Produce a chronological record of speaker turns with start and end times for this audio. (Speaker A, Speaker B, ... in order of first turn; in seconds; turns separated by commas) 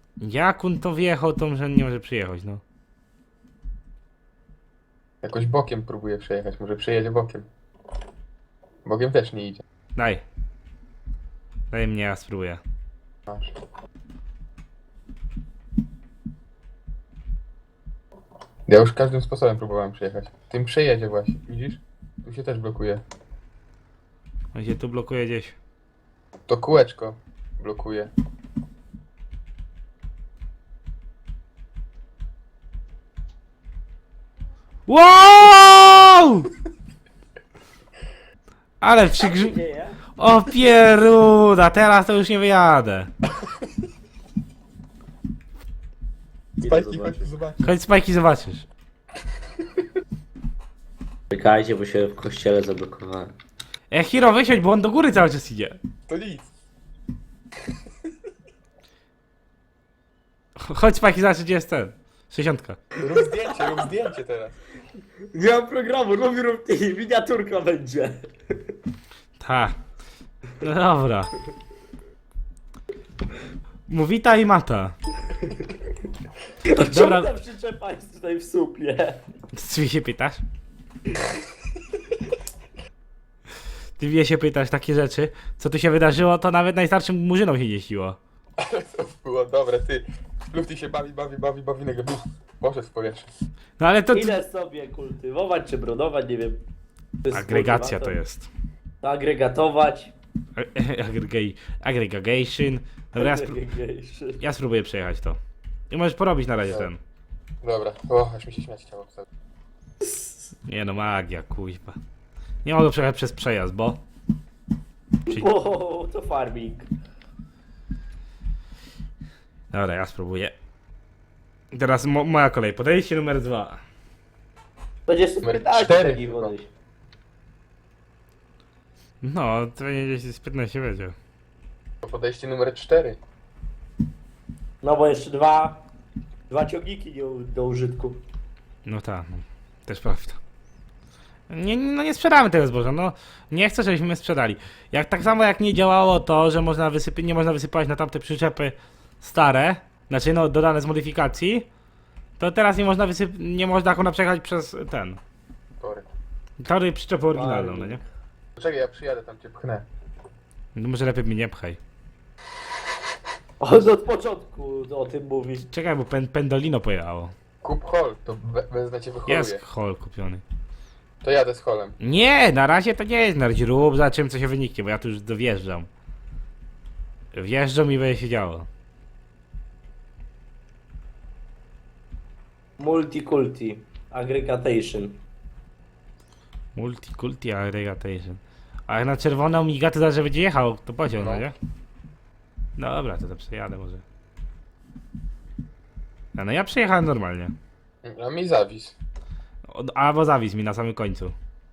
Speaker A: 0.2-2.6, Speaker B: 5.2-7.5, Speaker B: 8.8-9.6, Speaker A: 10.0-10.2, Speaker A: 11.7-12.6, Speaker B: 13.3-13.5, Speaker B: 18.7-23.0, Speaker A: 24.5-25.6, Speaker B: 26.5-28.1, Speaker A: 34.9-36.5, Speaker A: 38.8-39.6, Speaker C: 39.2-40.0, Speaker A: 40.2-43.1, Speaker C: 46.6-47.3, Speaker B: 46.6-47.8, Speaker A: 47.6-48.7, Speaker C: 51.3-53.3, Speaker A: 53.9-55.8, Speaker B: 56.1-56.5, Speaker A: 60.6-62.8, Speaker B: 63.0-64.6, Speaker C: 65.3-68.6, Speaker A: 69.4-69.8, Speaker A: 70.6-71.3, Speaker A: 73.9-75.0, Speaker C: 76.7-79.2, Speaker A: 76.9-77.3, Speaker A: 79.5-80.4, Speaker A: 84.0-88.2, Speaker B: 88.6-93.3, Speaker A: 93.8-94.4, Speaker C: 94.1-96.6, Speaker C: 97.2-98.2, Speaker A: 97.3-98.5, Speaker C: 99.0-100.1, Speaker A: 100.6-103.6, Speaker C: 103.2-104.4, Speaker A: 104.4-105.4, Speaker A: 105.9-107.0, Speaker B: 107.6-109.2, Speaker C: 110.0-110.3, Speaker A: 110.7-112.0, Speaker A: 112.6-114.0, Speaker C: 115.3-116.9, Speaker A: 119.7-120.5, Speaker A: 121.7-123.8, Speaker C: 125.1-126.7, Speaker B: 125.4-126.5, Speaker A: 129.2-131.2, Speaker B: 132.0-133.2, Speaker C: 134.8-135.8, Speaker C: 136.5-138.2, Speaker A: 138.9-140.4, Speaker A: 141.5-151.7, Speaker A: 152.4-155.2, Speaker B: 155.8-156.1, Speaker A: 156.6-158.0, Speaker C: 157.3-158.0, Speaker B: 158.6-159.9, Speaker A: 160.8-161.8, Speaker C: 163.6-165.7, Speaker A: 165.7-167.3, Speaker B: 167.6-169.6, Speaker A: 169.3-170.4, Speaker B: 171.2-172.0, Speaker A: 172.0-175.9, Speaker A: 177.3-178.7, Speaker C: 182.8-185.2, Speaker A: 186.8-191.6, Speaker B: 191.2-191.4, Speaker A: 192.8-194.0, Speaker A: 196.3-197.5, Speaker B: 198.0-199.0, Speaker A: 199.7-201.3